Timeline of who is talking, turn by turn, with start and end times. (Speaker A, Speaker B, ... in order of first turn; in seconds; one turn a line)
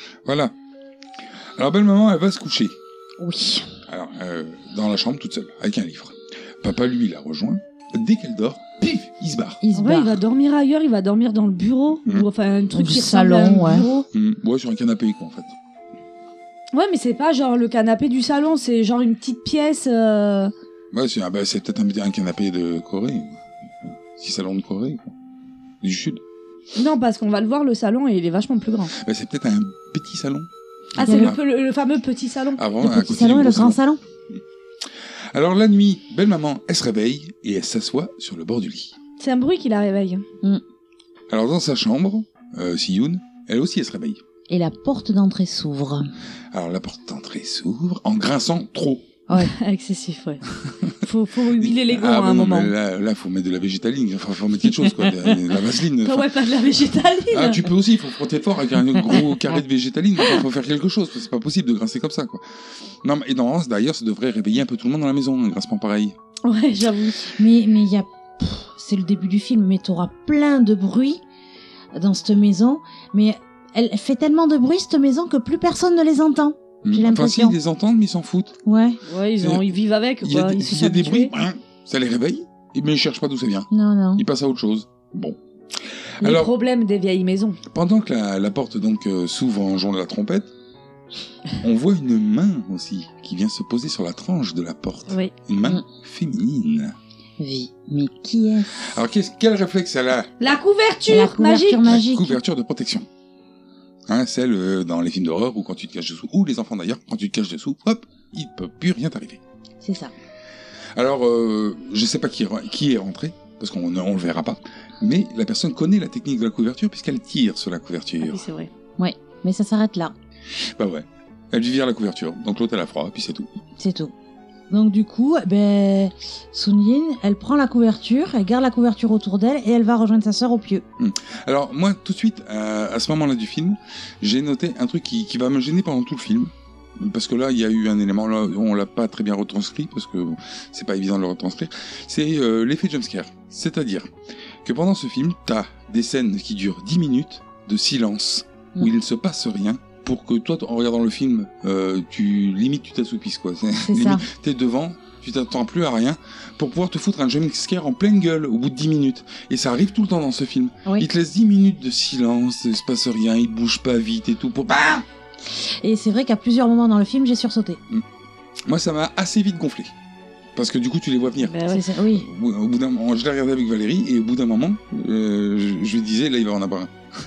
Speaker A: 0.2-0.5
Speaker A: 1.6-2.7
Speaker B: 3.2-3.7
Speaker A: 3.9-9.6
Speaker B: 9.6-10.2
Speaker C: 9.8-14.0
Speaker B: 12.7-14.0
Speaker A: 14.1-15.5
Speaker C: 16.7-20.5
Speaker A: 20.9-25.1
Speaker A: 25.8-26.2
Speaker C: 26.8-28.9
Speaker A: 28.9-31.4
Speaker C: 31.0-32.6
Speaker B: 31.0-31.4
Speaker A: 32.6-33.8
Speaker B: 32.8-34.0
Speaker A: 35.3-38.9
Speaker C: 39.2-40.2
Speaker A: 41.3-44.2
Speaker B: 44.5-46.1
Speaker A: 46.5-49.0
Speaker B: 49.3-49.5
Speaker C: 49.4-50.4
Speaker C: 51.0-52.7
Speaker A: 51.5-56.3
Speaker C: 56.0-57.6
Speaker A: 57.3-62.4
Speaker A: 63.0-66.2
Speaker C: 66.4-67.3
Speaker B: 67.3-71.2
Speaker B: 71.9-77.6
Speaker A: 76.8-78.6
Speaker B: 78.6-79.0
Speaker C: 79.1-81.3
Speaker A: 79.4-79.7
Speaker A: 80.2-85.4
Speaker B: 83.7-84.2
Speaker A: 86.2-86.5
Speaker C: 86.2-87.6
Speaker A: 87.7-90.5
Speaker A: 91.6-97.0
Speaker B: 97.4-99.0
Speaker A: 98.8-100.4
Speaker C: 100.4-101.8
Speaker B: 101.1-102.4
Speaker A: 101.8-103.0
Speaker A: 104.1-109.4
Speaker B: 109.8-110.1
Speaker A: 110.9-118.4
Speaker C: 118.2-118.7
Speaker B: 119.0-120.1
Speaker A: 120.6-123.5
Speaker B: 123.8-124.1
Speaker B: 124.7-130.8
Speaker A: 131.0-144.1
Speaker A: 144.6-165.0
Speaker B: 153.8-154.2
Speaker B: 165.8-167.8
Speaker A: 168.7-169.9
Speaker A: 170.6-171.6
Speaker C: 171.4-171.8
Speaker B: 171.7-172.3
Speaker A: 172.1-176.9